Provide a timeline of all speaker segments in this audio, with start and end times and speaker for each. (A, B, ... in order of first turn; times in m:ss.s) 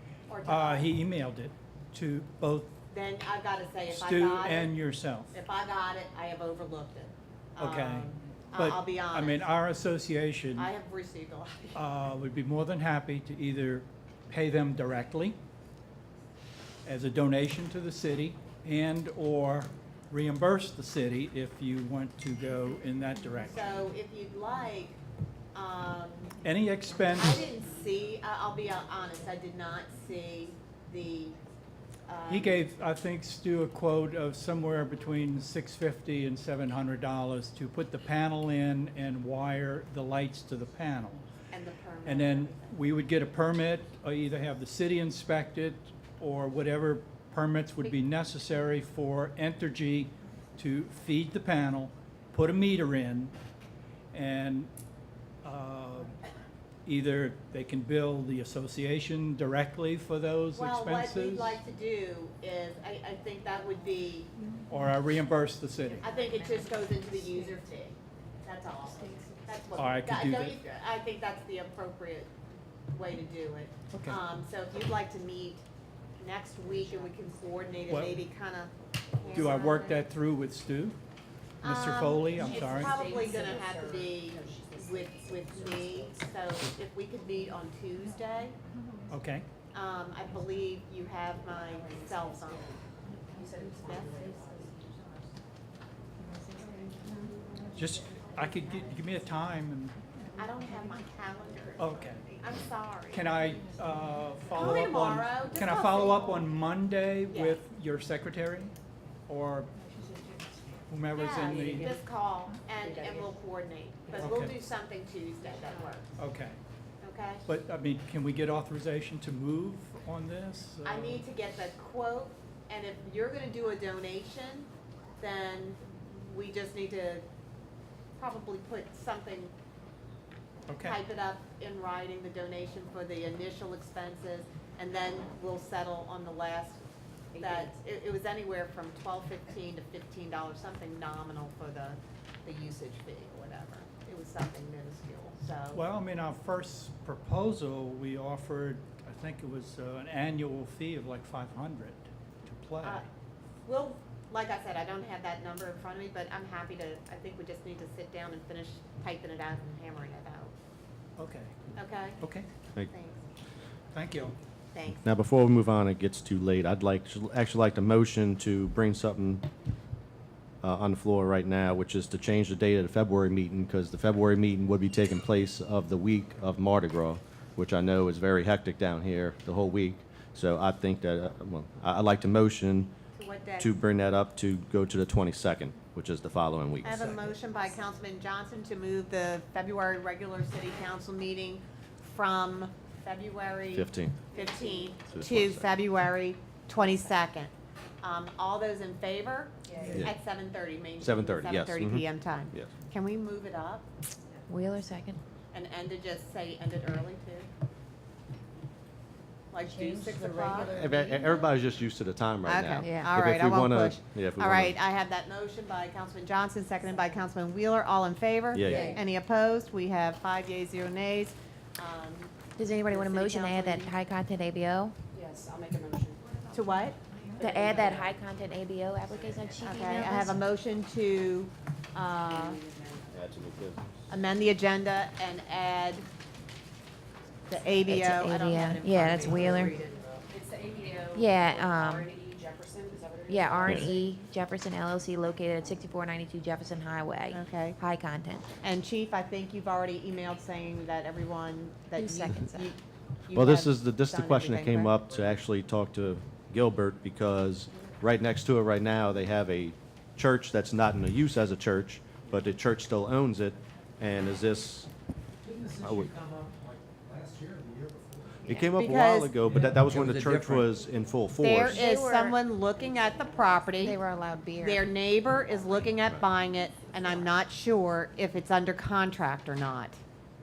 0:00.3-0:00.9 A
0:00.5-0:02.8 B
0:02.9-0:04.8 A
0:03.9-0:05.4 B
0:05.3-0:09.5 A
0:07.6-0:10.7 B
0:10.6-0:11.8 A
0:11.8-0:15.4 B
0:16.8-0:23.7 B
0:23.4-0:25.0 A
0:25.5-0:26.3 A
0:26.4-0:27.4 B
0:27.2-0:31.4 A
0:32.1-0:32.6 A
0:32.3-0:41.2 B
0:41.5-0:42.8 A
0:42.0-0:53.3 B
0:54.1-0:54.7 B
0:55.4-0:56.2 B
0:56.9-1:01.6 B
1:00.5-1:04.3 A
1:04.7-1:06.1 B
1:05.8-1:06.8 C
1:06.0-1:12.3 A
1:09.0-1:09.3 D
1:09.8-1:10.6 B
1:12.9-1:15.6 A
1:13.9-1:14.2 B
1:16.2-1:20.0 A
1:16.7-1:17.7 D
1:17.9-1:18.2 B
1:19.3-1:21.0 B
1:21.6-1:23.2 B
1:21.6-1:28.6 A
1:22.4-1:26.6 D
1:29.1-1:29.5 B
1:29.7-1:32.7 A
1:31.4-1:35.2 D
1:33.9-1:34.1 A
1:36.6-1:37.4 D
1:37.8-1:40.0 B
1:40.4-1:43.3 A
1:41.8-1:42.3 B
1:43.1-1:48.8 B
1:44.5-1:46.5 A
1:47.3-1:47.6 A
1:49.3-1:49.7 B
1:50.9-1:52.0 B
1:51.1-1:56.1 A
1:52.8-1:53.3 D
1:54.2-1:54.5 B
1:56.2-1:56.6 B
1:57.0-1:57.5 A
1:57.5-2:01.2 B
2:00.8-2:07.2 A
2:08.2-2:09.5 A
2:10.7-2:11.0 B
2:10.8-2:16.8 A
2:17.3-2:17.7 D
2:17.4-2:25.8 A
2:25.7-2:33.0 B
2:32.8-2:33.1 A
2:33.6-2:40.5 A
2:41.2-2:41.6 B
2:41.8-2:42.2 A
2:42.2-2:42.5 B
2:42.9-2:43.2 A
2:43.9-2:44.4 B
2:44.7-2:45.1 A
2:45.0-2:49.5 E
2:50.6-3:02.9 E
3:03.2-3:03.8 A
3:03.6-3:07.2 E
3:06.8-3:23.9 A
3:13.7-3:14.2 E
3:14.4-3:14.9 D
3:15.1-3:15.7 E
3:19.7-3:20.1 D
3:19.9-3:20.2 E
3:21.0-3:22.7 E
3:24.5-3:25.2 C
3:25.5-3:27.5 A
3:29.5-3:30.7 A
3:29.6-3:31.5 D
3:30.6-3:34.8 E
3:32.4-3:43.9 A
3:32.8-3:33.1 C
3:38.5-3:39.0 E
3:38.6-3:39.0 D
3:42.6-3:44.9 C
3:45.1-3:46.5 D
3:46.5-3:47.0 A
3:47.4-3:50.4 C
3:47.4-3:48.2 D
3:49.6-3:52.6 A
3:52.2-3:53.2 D
3:53.1-3:54.0 E
3:54.1-3:56.1 A
3:57.5-3:59.8 A
3:57.9-3:59.8 C
3:58.9-4:04.1 D
4:01.1-4:02.1 C
4:03.3-4:08.5 C
4:03.7-4:03.9 E
4:07.3-4:07.8 A
4:08.6-4:15.0 A
4:12.0-4:12.7 C
4:13.3-4:24.9 E
4:25.4-4:28.4 F
4:25.8-4:26.2 E
4:28.4-4:31.8 E
4:28.5-4:29.3 A
4:29.5-4:30.8 F
4:31.4-4:34.0 A
4:31.7-4:32.4 C
4:33.8-4:34.9 C
4:34.6-4:40.0 A